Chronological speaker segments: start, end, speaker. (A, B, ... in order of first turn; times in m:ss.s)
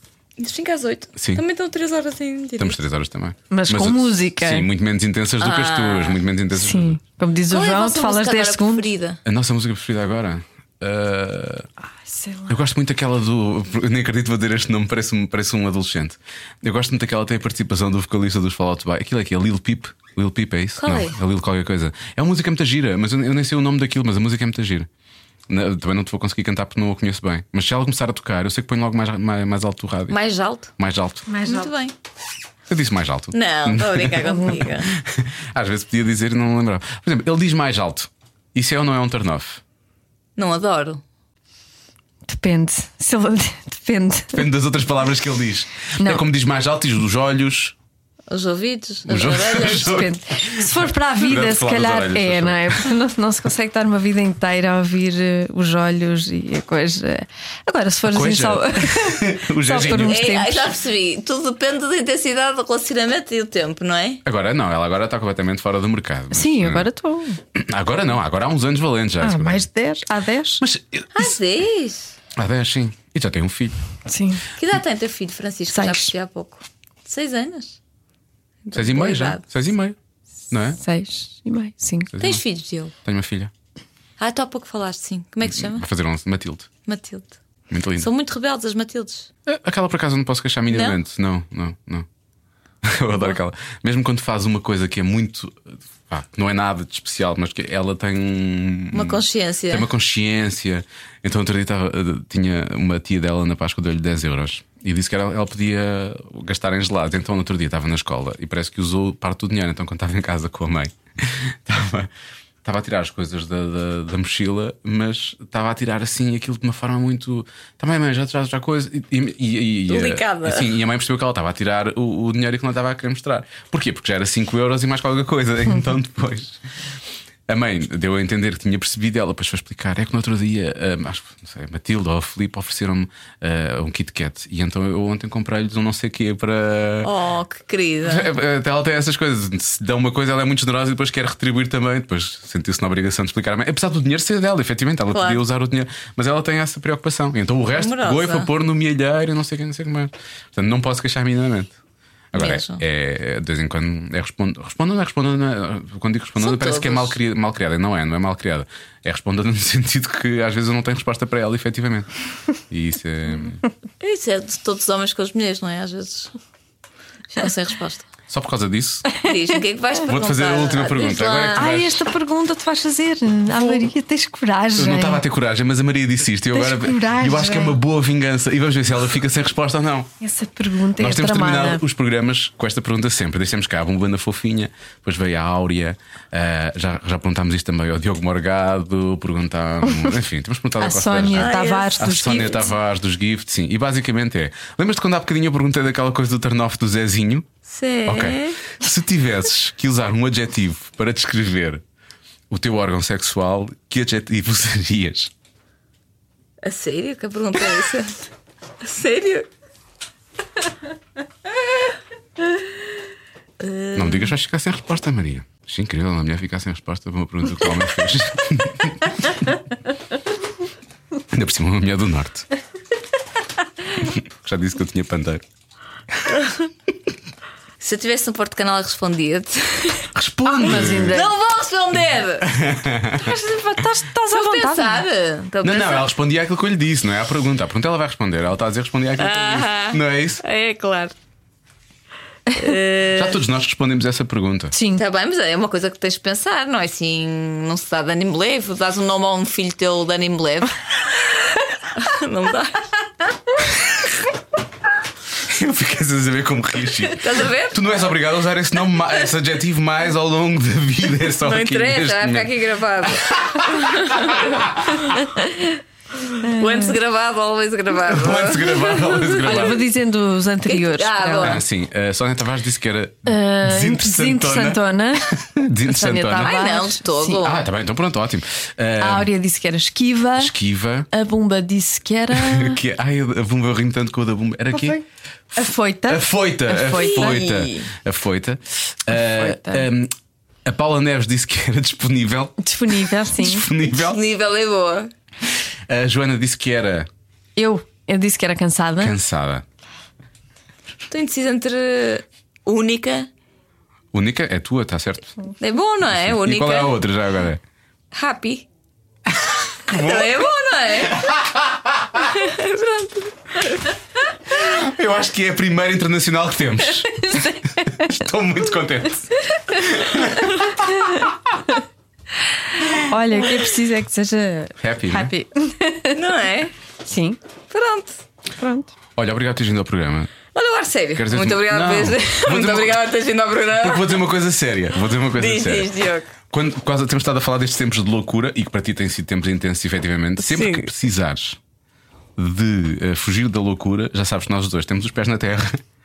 0:00.4-0:02.8 A
0:01.2-0:01.4 B
0:02.6-0:07.0 B
0:03.5-0:04.7 C
0:05.4-0:06.2 A
0:06.5-0:08.9 C
0:07.5-0:09.2 A
0:09.2-0:11.7 B
0:12.0-0:12.5 C
0:12.5-0:24.9 B
0:20.8-0:21.2 A
0:25.5-0:30.2 B
0:30.1-0:30.7 A
0:30.8-0:31.3 B
0:31.3-0:31.7 C
0:31.4-0:31.9 A
0:32.7-0:39.6 B
0:33.3-0:34.9 A
0:40.4-0:41.0 A
0:42.3-0:44.4 C
0:44.3-0:47.7 B
0:46.0-0:46.2 C
0:48.3-0:50.0 A
0:49.1-0:52.9 B
0:49.7-1:00.7 C
0:58.1-1:00.2 B
0:59.9-1:04.2 A
1:04.2-1:06.9 B
1:06.3-1:07.4 C
1:07.5-1:09.7 B
1:09.2-1:10.6 C
1:10.6-1:11.4 B
1:11.1-1:12.1 A
1:12.3-1:13.8 B
1:14.0-1:14.4 C
1:14.6-1:17.8 A
1:15.7-1:16.1 C
1:18.6-1:19.4 A
1:18.7-1:20.0 B
1:20.5-1:20.8 B
1:20.8-1:22.1 C
1:22.1-1:22.4 B
1:22.2-1:22.9 A
1:23.0-1:23.5 B
1:24.2-1:25.8 A
1:25.5-1:26.7 B
1:26.8-1:27.4 A
1:27.7-1:28.1 B
1:28.0-1:29.3 A
1:29.4-1:32.1 B
1:30.7-1:31.0 A
1:32.8-1:52.1 B
1:38.9-1:39.9 A
1:52.6-2:06.6 B
1:59.9-2:00.7 A
2:07.5-2:17.1 B
2:17.0-2:18.3 A
2:18.0-2:31.8 B
2:25.1-2:25.4 A
2:27.8-2:28.5 A
2:32.3-2:42.1 B
2:32.3-2:32.8 A
2:36.4-2:37.2 A
2:42.7-2:43.6 B
2:44.0-2:46.3 A
2:47.3-2:48.1 A
2:48.3-2:49.0 B
2:49.2-2:51.8 A
2:50.1-2:51.9 B
2:51.6-2:55.2 C
2:54.8-3:00.1 B
2:56.5-2:57.8 C
3:00.2-3:01.8 C
3:01.0-3:17.5 B
3:10.8-3:12.7 C
3:11.3-3:12.0 A
3:17.7-3:18.6 A
3:18.0-3:21.8 B
3:22.5-3:25.3 B
3:26.6-3:28.2 A
3:28.8-3:29.5 A
3:33.6-3:34.3 A
3:33.9-3:39.3 B
3:41.3-3:42.5 B
3:44.0-3:45.4 B
3:47.8-3:50.1 A
3:50.1-3:51.3 B
3:50.4-3:51.3 C
3:50.9-3:52.5 A
3:52.4-3:53.4 B
3:53.2-3:55.0 C
3:54.3-3:56.1 A
3:55.6-4:00.4 B
3:59.2-4:01.1 A
4:02.5-4:03.4 A
4:03.1-4:04.7 B
4:04.7-4:05.0 C
4:04.9-4:11.4 A
4:11.9-4:12.9 A
4:15.4-4:25.1 B
4:17.2-4:17.8 A
4:21.4-4:24.6 A
4:25.2-4:25.6 C
4:26.4-4:26.9 C
4:26.5-4:29.7 A
4:28.0-4:29.8 B
4:29.0-4:31.6 C
4:30.6-4:31.6 A
4:31.4-4:36.6 B
4:33.2-4:35.3 C
4:35.8-4:37.4 C
4:36.4-4:37.6 A
4:37.4-4:39.3 B
4:39.0-4:40.5 C
4:40.4-4:41.1 B
4:41.1-4:42.8 C
4:42.3-4:50.1 B
4:44.7-4:45.0 C
4:45.6-4:47.3 C
4:46.9-4:47.9 A
4:49.1-4:49.8 C
4:50.6-4:54.2 B
4:52.6-4:53.7 C
4:53.8-4:55.1 A
4:55.9-4:57.1 B
4:57.6-4:59.2 C
4:59.0-4:59.6 B
5:01.1-5:03.3 A
5:04.1-5:05.3 B
5:05.6-5:07.0 A
5:06.1-5:07.6 B
5:08.1-5:08.6 A
5:09.3-5:10.4 B
5:09.9-5:11.3 A
5:11.1-5:12.0 B
5:12.2-5:13.9 A
5:14.5-5:21.3 B
5:17.3-5:17.5 C
5:19.9-5:21.2 C
5:22.9-5:26.2 C
5:24.8-5:25.3 B
5:26.1-5:26.7 A
5:27.0-5:27.4 C
5:27.7-5:28.2 A
5:28.6-5:28.9 C
5:29.2-5:30.3 B
5:30.5-5:34.2 A
5:31.1-5:33.0 B
5:33.8-5:35.9 B
5:35.3-5:36.3 A
5:36.5-5:41.6 B
5:40.4-5:40.9 A
5:42.4-5:45.8 B